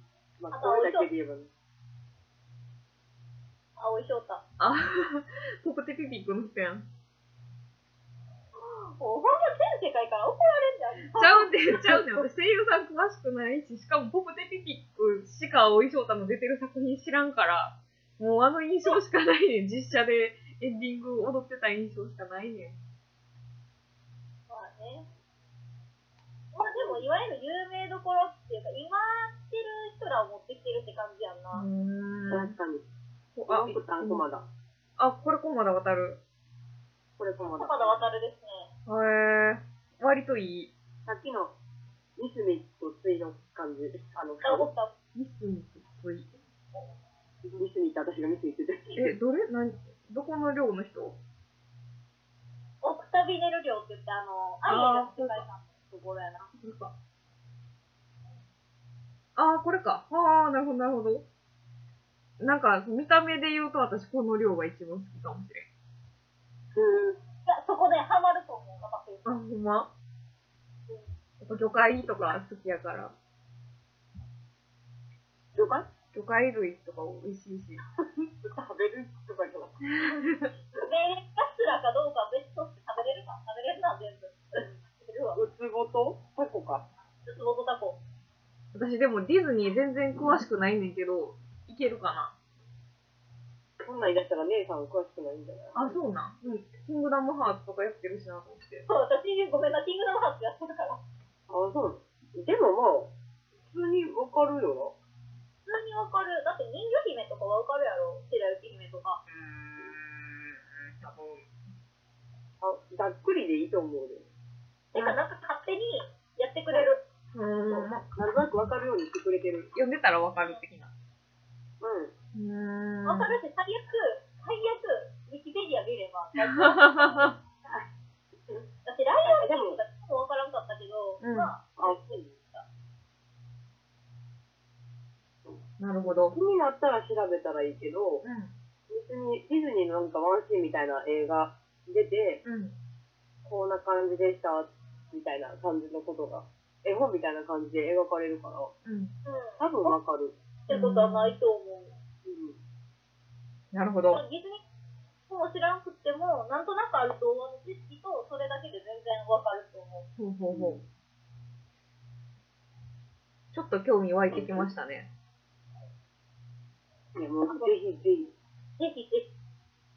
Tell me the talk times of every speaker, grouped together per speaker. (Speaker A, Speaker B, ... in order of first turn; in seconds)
Speaker A: 0.4-1.5, 26.6-27.0, 32.3-32.9, 33.5-34.5, 37.2-38.0, 41.0-41.5, 42.2-44.7, 47.4-49.1, 66.7-67.2, 75.5-75.9, 78.0-79.8, 85.3-86.8, 93.8-96.0, 101.5-105.0, 112.6-114.2, 117.7-119.7, 121.8-122.1, 129.2-129.8, 131.8-132.3, 136.0-138.2, 138.9-142.4, 143.4-148.7, 149.6-150.3, 152.2-152.6, 160.5-160.8, 164.3-164.7, 167.1-168.3
Speaker B: 0.5-1.1, 3.8-4.4, 8.6-11.9, 24.5-25.1, 26.5-31.7, 37.6-38.7, 44.4-44.9, 52.8-56.5, 67.5-69.2, 80.8-85.4, 87.2-88.0, 98.8-101.0, 105.7-109.2, 114.9-117.0, 120.3-120.6, 123.0-127.3, 128.8-132.6, 149.2-149.9, 150.7-151.9, 154.1-154.6, 155.3-160.1, 167.4-167.7, 168.8-169.3
Speaker C: 4.6-6.8, 11.2-22.8, 31.5-32.5, 33.4-34.2, 35.0-36.2, 38.9-40.7, 45.1-46.4, 48.9-51.2, 54.6-55.4, 56.6-56.9, 59.4-61.2, 62.4-65.7, 69.2-69.9, 71.4-73.1, 76.1-77.8, 79.9-80.5, 88.7-92.3, 95.7-98.8, 109.3-111.5, 117.3-118.0, 119.7-120.9, 122.3-123.3, 126.4-127.3, 131.2-131.5, 135.8-136.3, 138.2-138.5, 142.4-142.7, 148.8-149.1, 150.7-151.4, 153.7-154.2, 160.2-160.8, 163.5-165.1